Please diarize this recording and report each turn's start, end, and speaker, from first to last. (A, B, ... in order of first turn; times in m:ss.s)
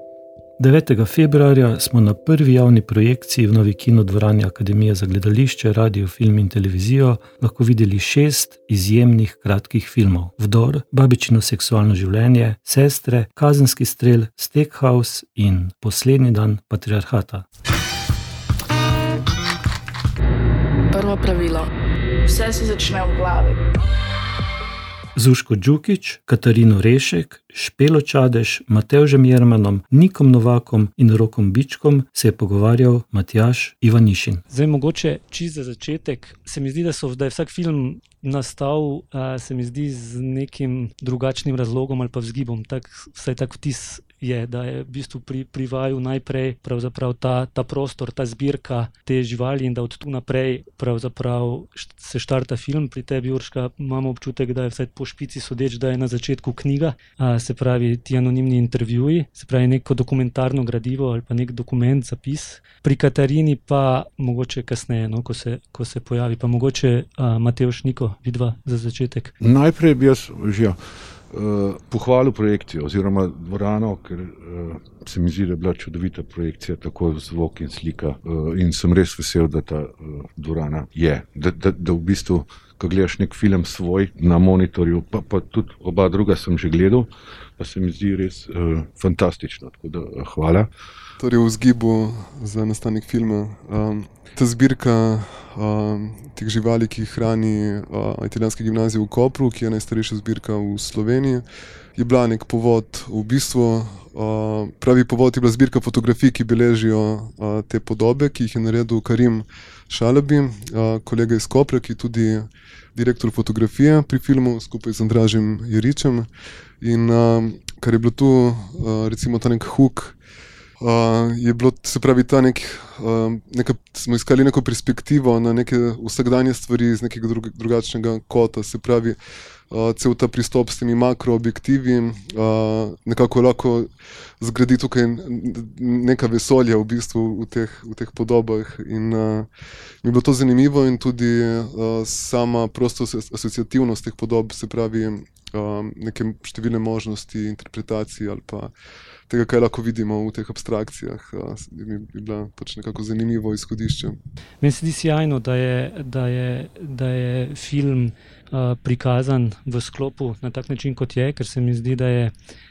0:00.6-0:17.5 A
0:20.9-0:21.7 B
0:22.3-0:23.6 B
0:25.2-0:34.4 A
0:34.5-1:09.3 C
1:09.4-1:30.7 D
1:31.2-1:41.4 E
1:42.0-1:56.3 E
1:56.8-2:00.2 E
2:00.8-2:09.2 E
2:09.7-2:19.5 E
2:20.0-2:28.7 E
2:29.3-2:34.2 E
2:34.6-2:42.3 C